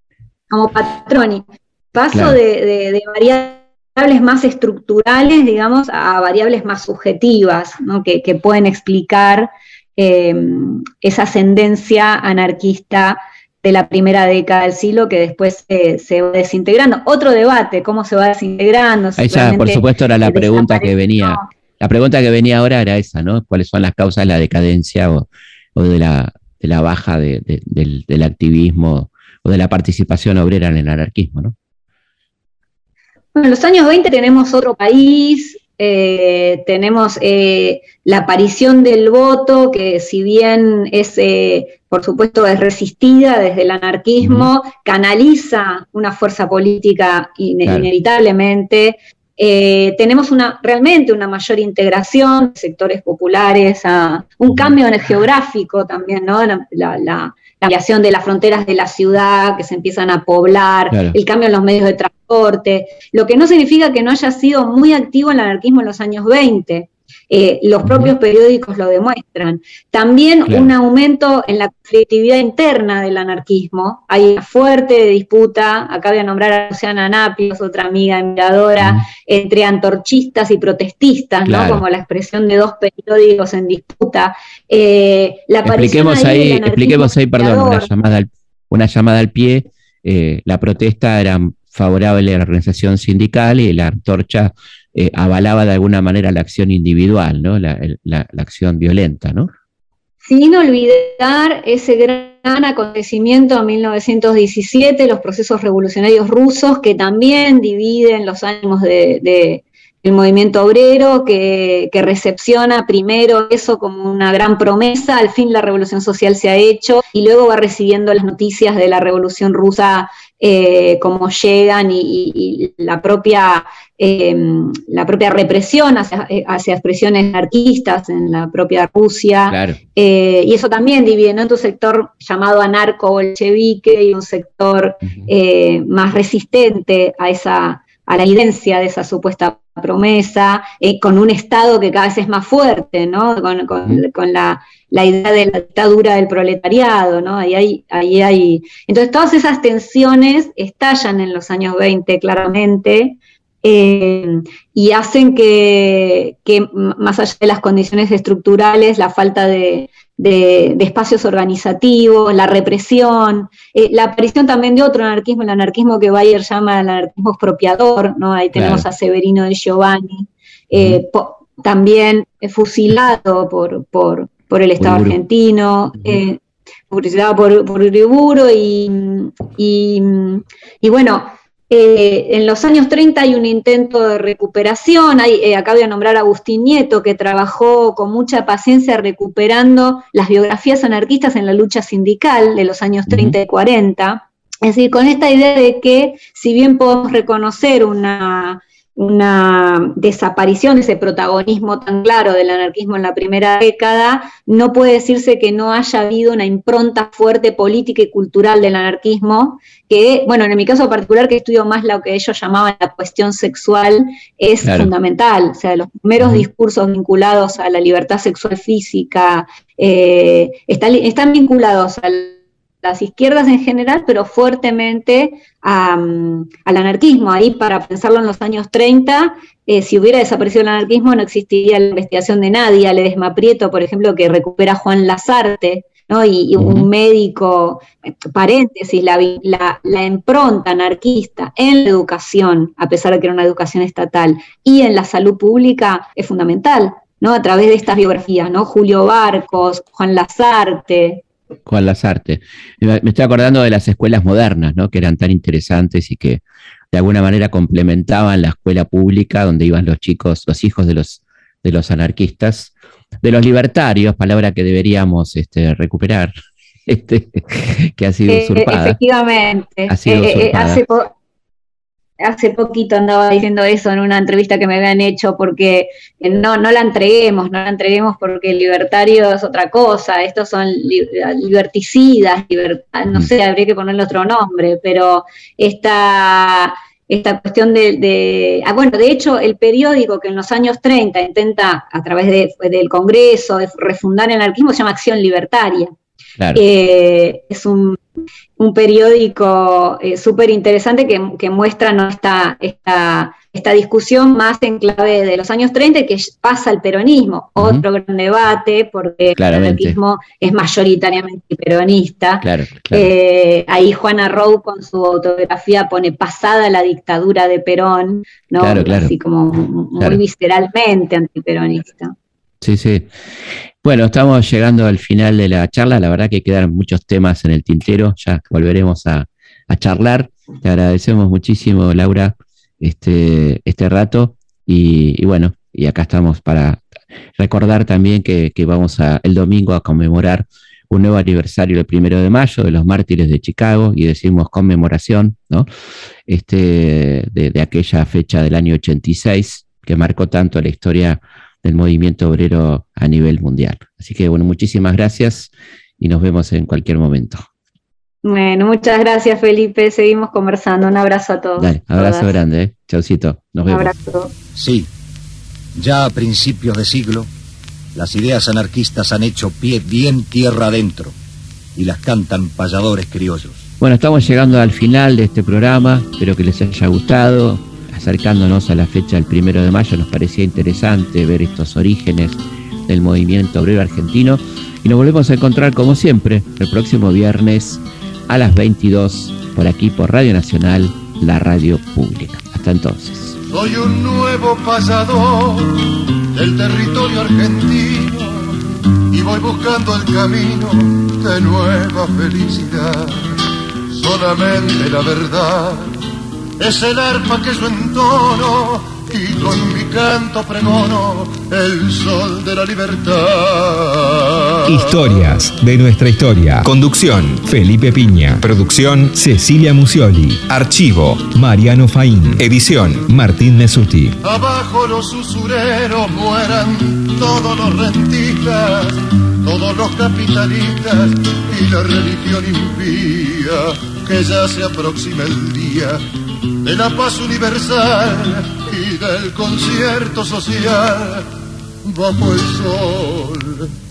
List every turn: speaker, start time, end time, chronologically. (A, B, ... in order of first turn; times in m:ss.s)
0:00.5-0:21.4 A
0:19.2-0:31.5 B
0:33.3-1:27.9 A
0:44.2-0:44.5 B
1:00.9-1:01.2 B
1:07.8-1:08.1 B
1:21.4-1:21.8 B
1:25.6-1:39.5 B
1:40.2-4:11.2 A
2:09.5-2:09.8 B
2:48.5-2:48.8 B
2:50.7-2:51.0 B
2:54.8-2:55.2 B
3:13.1-3:13.3 B
3:34.6-3:34.9 B
3:56.6-3:56.9 B
4:11.6-4:26.3 B
4:26.9-4:29.0 B
4:28.3-4:31.1 A
4:29.9-4:30.8 B
4:32.2-4:55.9 A
4:56.5-4:58.0 A
4:58.6-5:22.1 A
5:07.6-5:07.8 B
5:09.3-5:10.0 B
5:12.4-5:13.1 B
5:18.6-5:19.1 B
5:22.6-5:23.1 B
5:23.8-5:36.8 B
5:37.4-5:45.7 B
5:46.3-5:57.4 B
5:58.2-6:02.4 A
6:01.6-6:03.9 B
6:03.7-6:04.3 A
6:04.5-6:04.9 C
6:05.8-6:07.3 C
6:07.9-6:11.2 C
6:11.8-6:13.6 C
6:13.8-6:33.4 B
6:33.5-6:38.6 D
6:39.1-6:46.0 D
6:46.6-6:54.7 D
6:54.6-7:04.2 E
7:04.2-7:16.0 D
7:16.6-7:21.3 D
7:21.8-7:23.7 D